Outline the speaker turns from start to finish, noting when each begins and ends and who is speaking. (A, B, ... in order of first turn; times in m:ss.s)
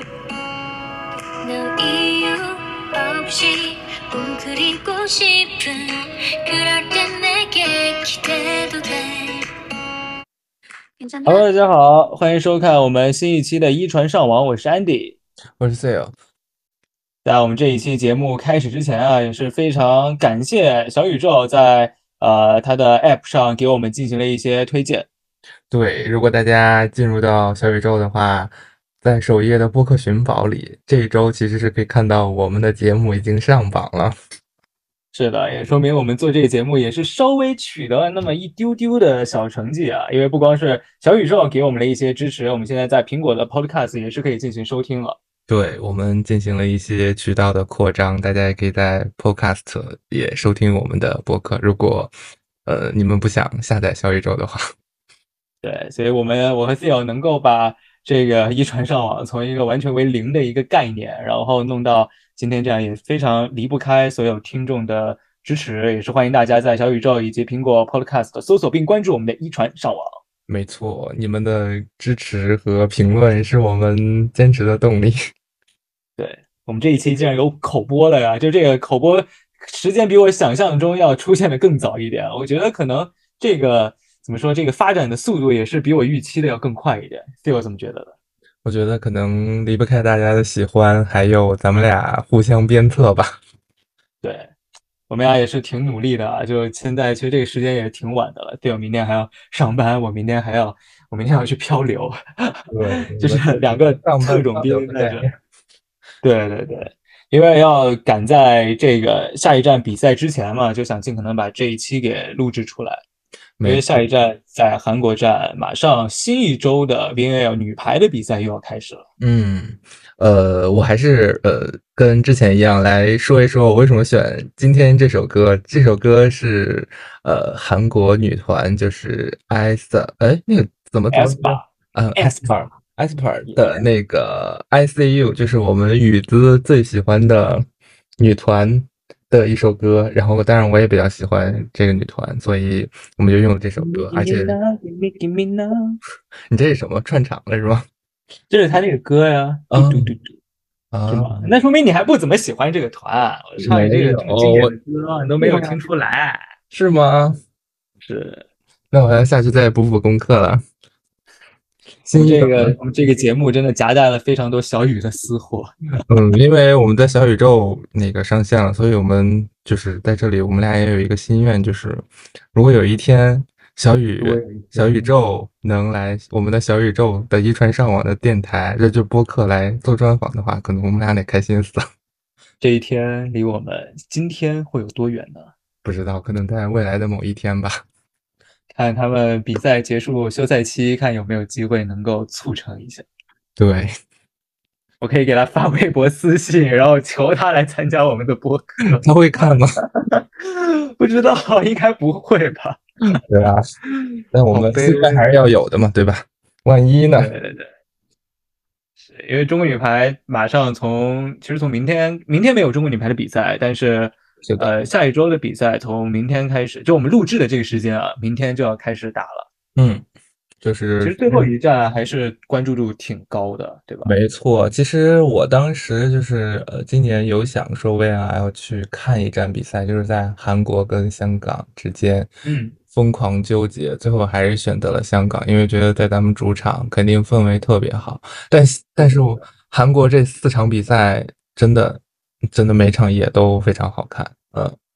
0:01.4-0:09.5 A
0:11.0-0:11.5 A
0:11.2-0:15.2 B
0:15.6-0:16.1 C
0:17.2-0:25.1 B
0:25.7-0:28.5 C
0:29.0-0:34.2 C
0:35.1-0:45.2 B
0:45.5-0:52.1 C
0:52.7-0:54.6 C
0:55.6-1:10.2 B
1:10.5-1:15.2 C
1:16.2-1:28.2 B
1:28.6-1:33.4 C
1:34.2-1:34.5 B
1:35.1-1:45.2 B
1:42.7-1:45.3 C
1:46.2-1:53.0 B
1:53.6-1:54.0 C
1:53.6-1:59.0 B
1:59.2-2:17.6 C
2:11.1-2:12.5 B
2:13.5-2:13.8 B
2:18.2-2:24.6 C
2:23.8-2:26.0 B
2:26.5-2:27.9 C
2:28.5-2:30.4 B
2:29.7-2:30.1 C
2:30.9-2:31.5 C
2:31.1-2:36.5 B
2:33.6-2:34.7 C
2:35.4-2:35.8 C
2:36.7-2:37.4 C
2:38.0-2:38.5 B
2:38.9-2:40.6 C
2:42.1-2:42.8 C
2:42.2-2:46.0 B
2:46.1-3:01.9 C
2:54.2-2:55.1 B
3:02.6-3:05.5 B
3:05.8-3:07.8 C
3:08.7-3:13.1 B
3:13.6-3:13.9 C
3:15.0-3:23.2 B
3:19.0-3:19.8 C
3:23.2-3:23.6 C
3:24.3-3:27.3 C
3:24.5-3:25.3 B
3:27.1-3:27.7 B
3:29.0-3:39.5 B
3:39.8-3:40.0 C
3:40.6-3:41.5 C
3:41.0-3:44.1 B
3:44.0-3:52.3 C
3:52.4-3:52.8 B
3:52.9-4:04.8 C